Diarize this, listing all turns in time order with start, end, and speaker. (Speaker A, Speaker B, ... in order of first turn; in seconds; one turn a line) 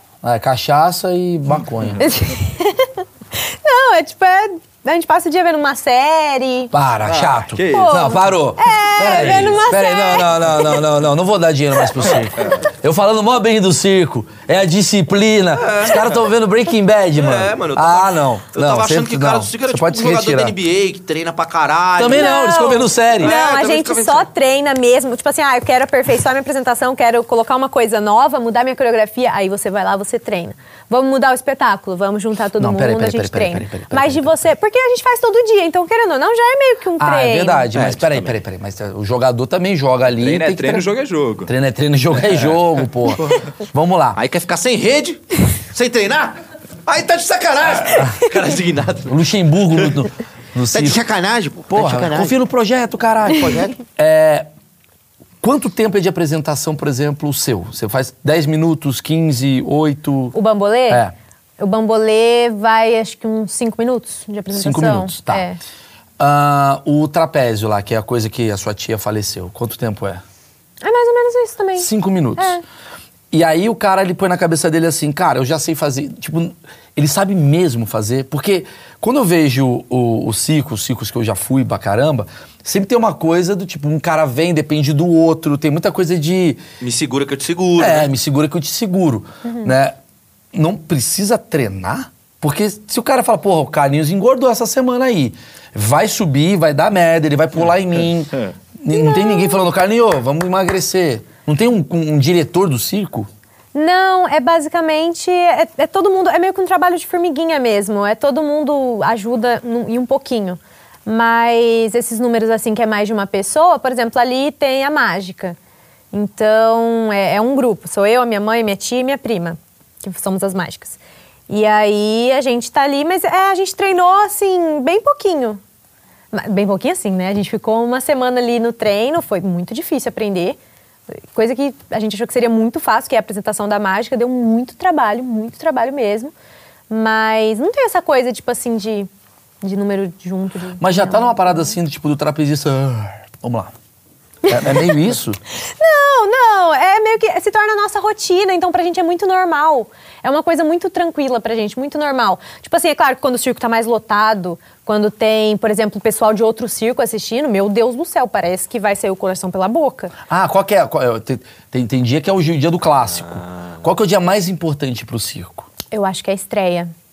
Speaker A: 0.2-2.1
Speaker B: 2.0-6.7
Speaker A: 6.7-20.6
Speaker C: 7.0-8.2
Speaker B: 7.7-10.8
Speaker C: 9.2-9.5
Speaker D: 15.6-16.1
Speaker D: 17.1-22.4
Speaker A: 22.0-23.3
Speaker B: 22.1-37.7
Speaker D: 23.2-24.3
Speaker A: 32.6-34.3
Speaker A: 37.0-40.9
Speaker D: 37.7-38.4
Speaker C: 40.1-41.5
Speaker A: 41.4-44.2
Speaker D: 44.1-49.2
Speaker A: 47.8-48.2
Speaker A: 49.0-51.0
Speaker D: 50.7-52.3
Speaker A: 51.7-54.5
Speaker D: 53.3-53.8
Speaker A: 55.4-60.3
Speaker B: 60.3-61.0
Speaker A: 60.9-61.1
Speaker B: 61.6-65.6
Speaker A: 64.5-65.4
Speaker A: 66.2-70.2
Speaker B: 70.8-72.6
Speaker A: 71.8-72.6
Speaker A: 73.3-86.6
Speaker D: 86.8-88.1
Speaker A: 87.8-90.0
Speaker B: 89.4-89.7
Speaker A: 90.5-103.3
Speaker B: 98.9-99.6
Speaker B: 103.7-115.5
Speaker B: 116.1-121.0
Speaker B: 121.5-125.6
Speaker B: 126.3-130.6
Speaker B: 131.1-136.3
Speaker B: 136.9-139.1
Speaker B: 139.6-141.7
Speaker A: 140.8-143.7
Speaker B: 144.4-144.8
Speaker A: 144.5-145.4
Speaker B: 145.6-160.1
Speaker A: 160.3-165.7
Speaker D: 163.4-163.8
Speaker B: 165.9-166.9